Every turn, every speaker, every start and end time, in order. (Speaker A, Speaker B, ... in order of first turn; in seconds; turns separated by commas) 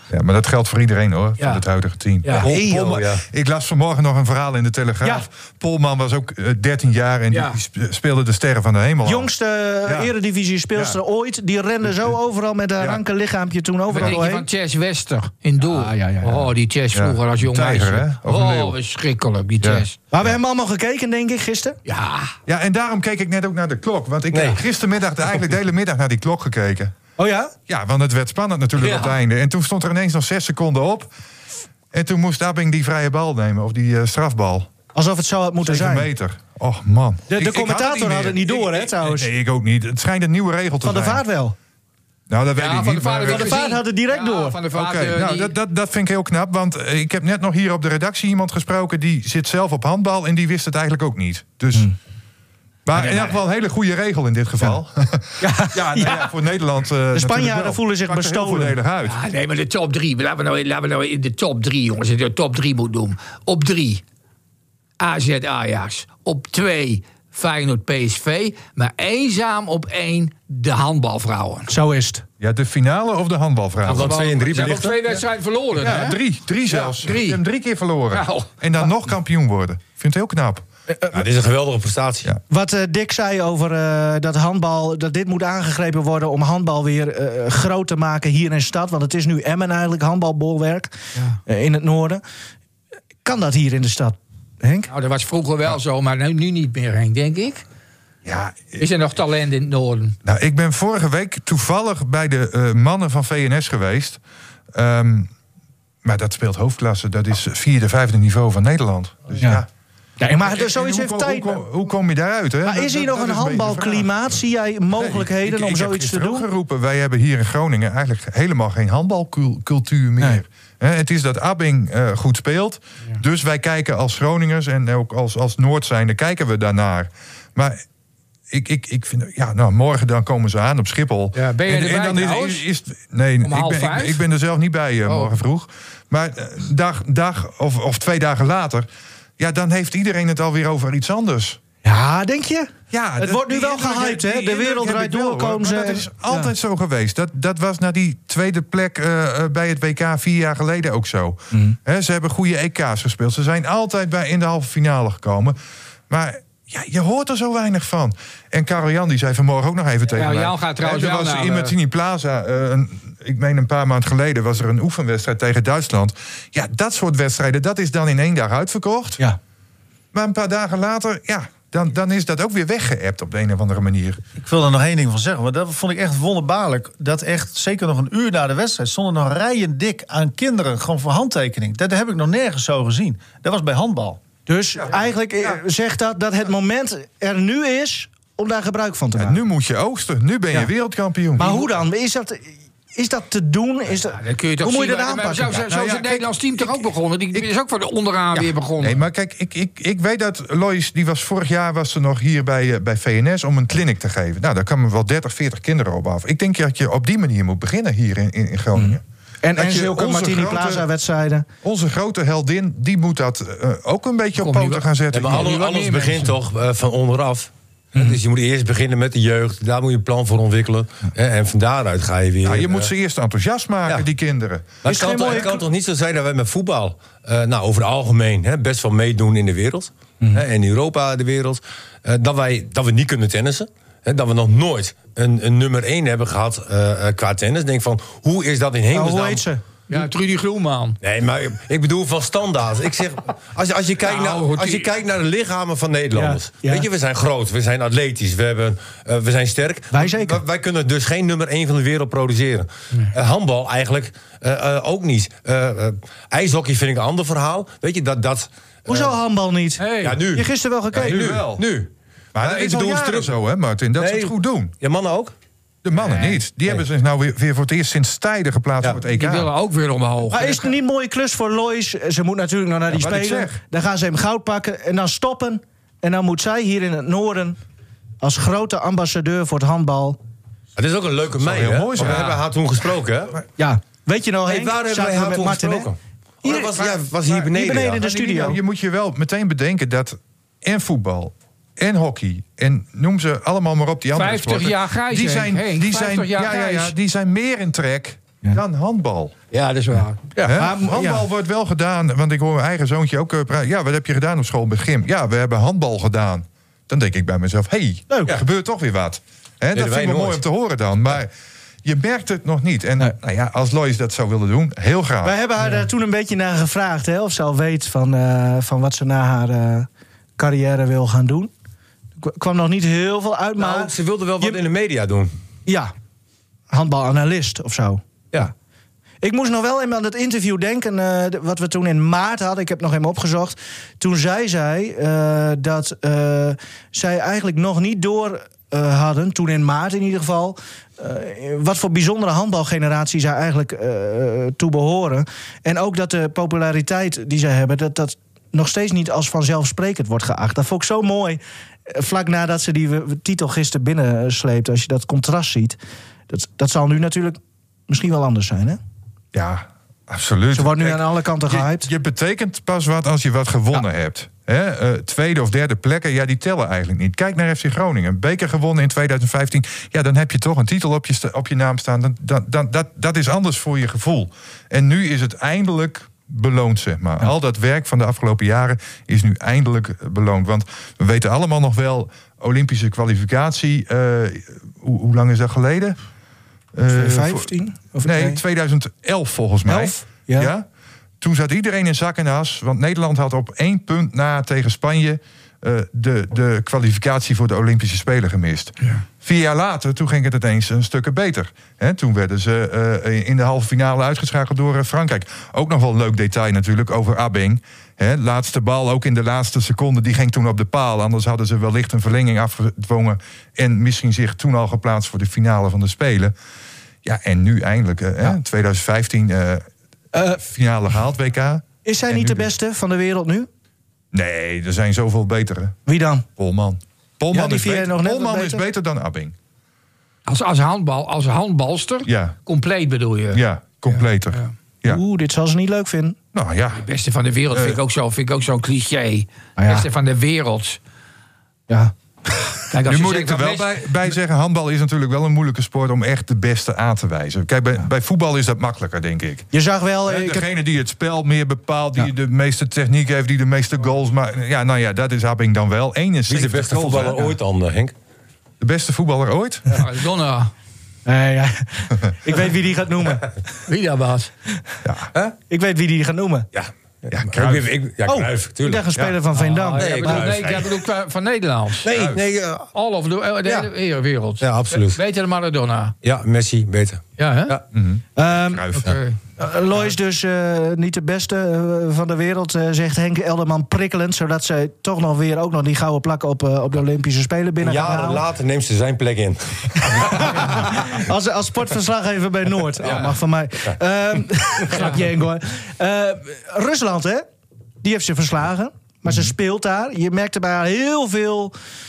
Speaker A: 0.1-9.3, Speaker B: 1.4-1.6, Speaker B: 2.2-2.5, Speaker C: 2.4-3.2, Speaker B: 7.3-7.6, Speaker D: 9.0-14.5, Speaker A: 9.8-10.1, Speaker A: 10.7-11.0, Speaker B: 13.9-19.9, Speaker D: 15.6-16.5, Speaker A: 16.9-18.8, Speaker A: 19.6-20.4, Speaker D: 20.1-21.8, Speaker B: 21.9-22.3, Speaker A: 22.4-26.9, Speaker C: 24.3-24.6, Speaker D: 27.2-27.5, Speaker A: 27.7-31.1, Speaker B: 28.8-29.1, Speaker A: 31.9-34.7, Speaker D: 34.9-36.1, Speaker A: 35.6-41.2, Speaker D: 37.3-39.3, Speaker D: 40.8-41.5, Speaker A: 42.3-43.6, Speaker B: 42.5-45.5, Speaker D: 43.3-44.6, Speaker A: 44.7-51.9, Speaker A: 52.8-59.2, Speaker D: 55.4-56.3, Speaker D: 57.1-58.8, Speaker B: 59.0-64.0, Speaker B: 65.0-71.7, Speaker D: 71.7-72.2, Speaker A: 72.4-74.2, Speaker C: 73.8-75.1, Speaker B: 73.9-77.4, Speaker A: 75.8-80.7, Speaker B: 78.1-78.5, Speaker D: 80.9-81.2, Speaker C: 81.1-82.3, Speaker D: 82.5-90.9, Speaker D: 91.5-92.2, Speaker D: 93.2-94.9, Speaker B: 94.9-97.6, Speaker A: 98.2-98.8, Speaker B: 98.8-100.2, Speaker A: 100.2-104.2, Speaker A: 104.7-105.3, Speaker A: 106.0-109.7, Speaker D: 109.4-109.6, Speaker D: 110.2-111.6, Speaker A: 110.3-114.4, Speaker D: 112.6-116.5, Speaker A: 114.9-127.8, Speaker A: 128.5-138.9, Speaker B: 131.3-132.6, Speaker B: 133.4-134.2, Speaker B: 135.0-135.3, Speaker A: 139.4-141.6, Speaker D: 141.8-146.5, Speaker A: 142.9-155.6, Speaker A: 156.1-169.2, Speaker B: 160.1-161.7, Speaker A: 170.1-174.2, Speaker E: 174.4-184.2, Speaker D: 184.4-189.4, Speaker A: 189.2-191.6, Speaker D: 191.4-196.2, Speaker B: 194.1-199.0, Speaker A: 195.7-196.7, Speaker A: 198.3-209.0, Speaker D: 208.8-211.5, Speaker A: 209.5-210.9, Speaker A: 211.6-215.6, Speaker B: 214.4-216.3, Speaker C: 215.1-222.9, Speaker A: 222.4-224.8, Speaker C: 224.8-239.4, Speaker D: 224.8-225.6, Speaker D: 238.9-239.9, Speaker B: 239.9-241.0, Speaker C: 241.0-259.1, Speaker B: 244.0-244.9, Speaker D: 246.1-246.9, Speaker D: 249.9-250.4, Speaker D: 258.9-261.4, Speaker B: 259.8-260.2, Speaker C: 260.0-263.3, Speaker A: 260.9-261.6, Speaker A: 262.3-264.7, Speaker C: 264.0-265.3, Speaker A: 265.8-269.5, Speaker B: 269.1-270.7, Speaker D: 270.3-277.6, Speaker A: 272.9-273.6, Speaker D: 278.2-280.2, Speaker C: 280.8-283.4, Speaker A: 281.4-282.4, Speaker D: 283.6-285.9, Speaker C: 284.4-288.1, Speaker D: 286.4-286.9, Speaker D: 287.4-288.6, Speaker A: 288.0-299.3, Speaker B: 294.1-296.9, Speaker B: 299.5-300.4, Speaker D: 300.4-301.3, Speaker A: 300.4-311.3, Speaker D: 308.1-308.4, Speaker C: 309.7-310.4, Speaker A: 311.8-315.4, Speaker D: 315.2-319.9, Speaker D: 320.4-321.5, Speaker D: 322.2-324.6, Speaker C: 323.6-325.3, Speaker D: 325.6-325.9, Speaker D: 326.7-328.5, Speaker D: 329.2-355.8, Speaker D: 356.3-358.8, Speaker A: 359.3-386.0, Speaker D: 360.5-361.9, Speaker A: 386.7-387.5, Speaker D: 386.9-388.4, Speaker A: 388.0-390.6, Speaker D: 389.6-390.5, Speaker A: 391.2-416.3, Speaker A: 417.0-419.6, Speaker D: 420.1-420.4, Speaker A: 420.2-422.5, Speaker D: 421.8-423.5, Speaker A: 424.1-425.8, Speaker D: 425.9-426.2, Speaker A: 426.4-429.3, Speaker D: 427.3-428.6, Speaker B: 430.2-434.5, Speaker A: 432.1-432.4, Speaker A: 433.3-435.0, Speaker D: 434.8-436.2, Speaker A: 436.3-436.9, Speaker B: 436.7-440.8, Speaker A: 437.5-437.8, Speaker D: 439.6-439.9, Speaker D: 441.7-442.5, Speaker B: 442.7-443.9, Speaker A: 442.8-449.5, Speaker D: 449.5-450.5, Speaker A: 450.1-457.3, Speaker C: 456.3-457.9, Speaker A: 458.6-459.9, Speaker B: 459.7-460.5, Speaker D: 461.1-463.4, Speaker B: 463.7-464.3, Speaker A: 464.8-465.1, Speaker D: 465.5-466.5, Speaker C: 466.5-468.9, Speaker A: 467.1-467.7, Speaker D: 468.1-470.4, Speaker B: 469.3-471.9, Speaker C: 469.7-470.7, Speaker C: 471.8-472.7, Speaker A: 471.9-472.2, Speaker B: 472.7-475.9, Speaker C: 474.4-475.0, Speaker C: 476.0-477.6, Speaker B: 477.2-477.6, Speaker A: 477.7-479.0, Speaker D: 478.2-478.7, Speaker B: 478.7-479.2, Speaker D: 479.4-488.2, Speaker C: 487.6-491.0, Speaker D: 489.8-497.2, Speaker C: 492.8-493.1, Speaker D: 497.8-501.5